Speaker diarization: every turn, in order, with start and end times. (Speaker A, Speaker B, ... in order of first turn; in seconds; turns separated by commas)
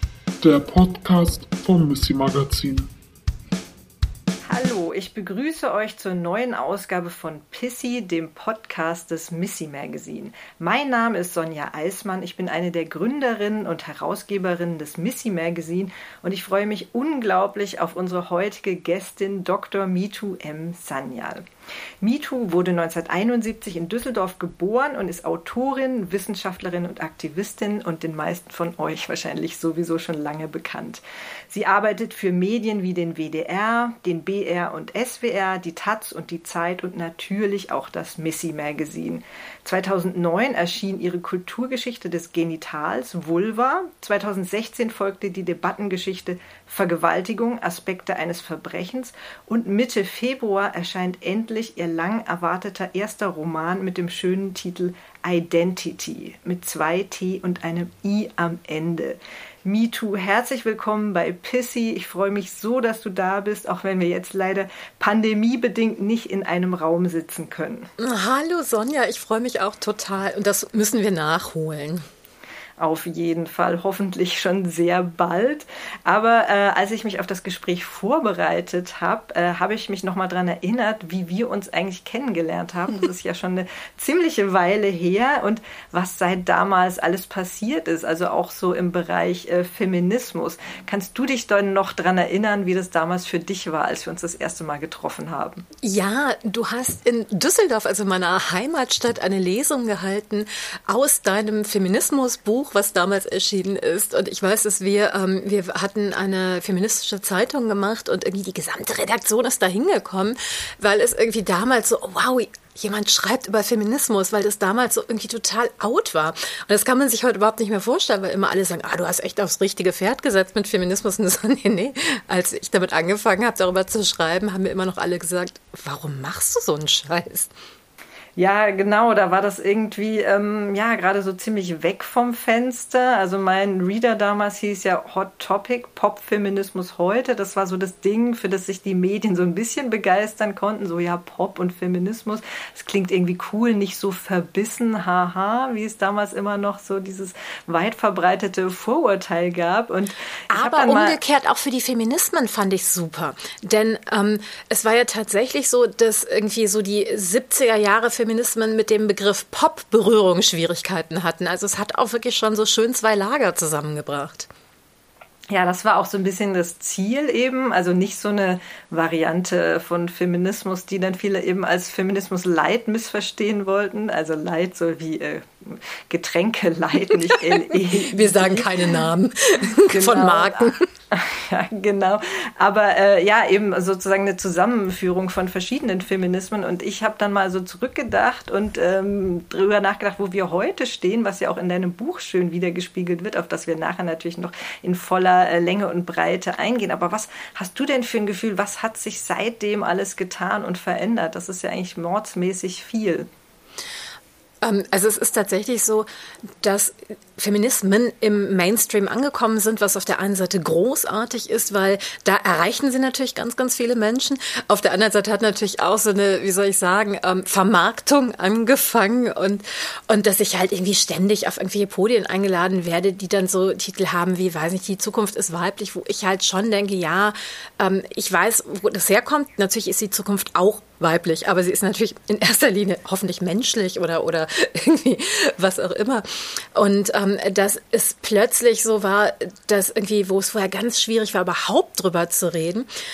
Speaker A: 0.4-2.9, Speaker B: 4.5-21.4, Speaker B: 22.0-67.9, Speaker C: 68.0-72.0, Speaker B: 72.8-95.6, Speaker C: 95.8-127.5, Speaker B: 128.4-151.2, Speaker C: 150.5-164.5, Speaker B: 165.5-179.1, Speaker C: 177.1-180.9, Speaker B: 179.7-203.3, Speaker C: 204.6-206.1, Speaker C: 206.6-242.9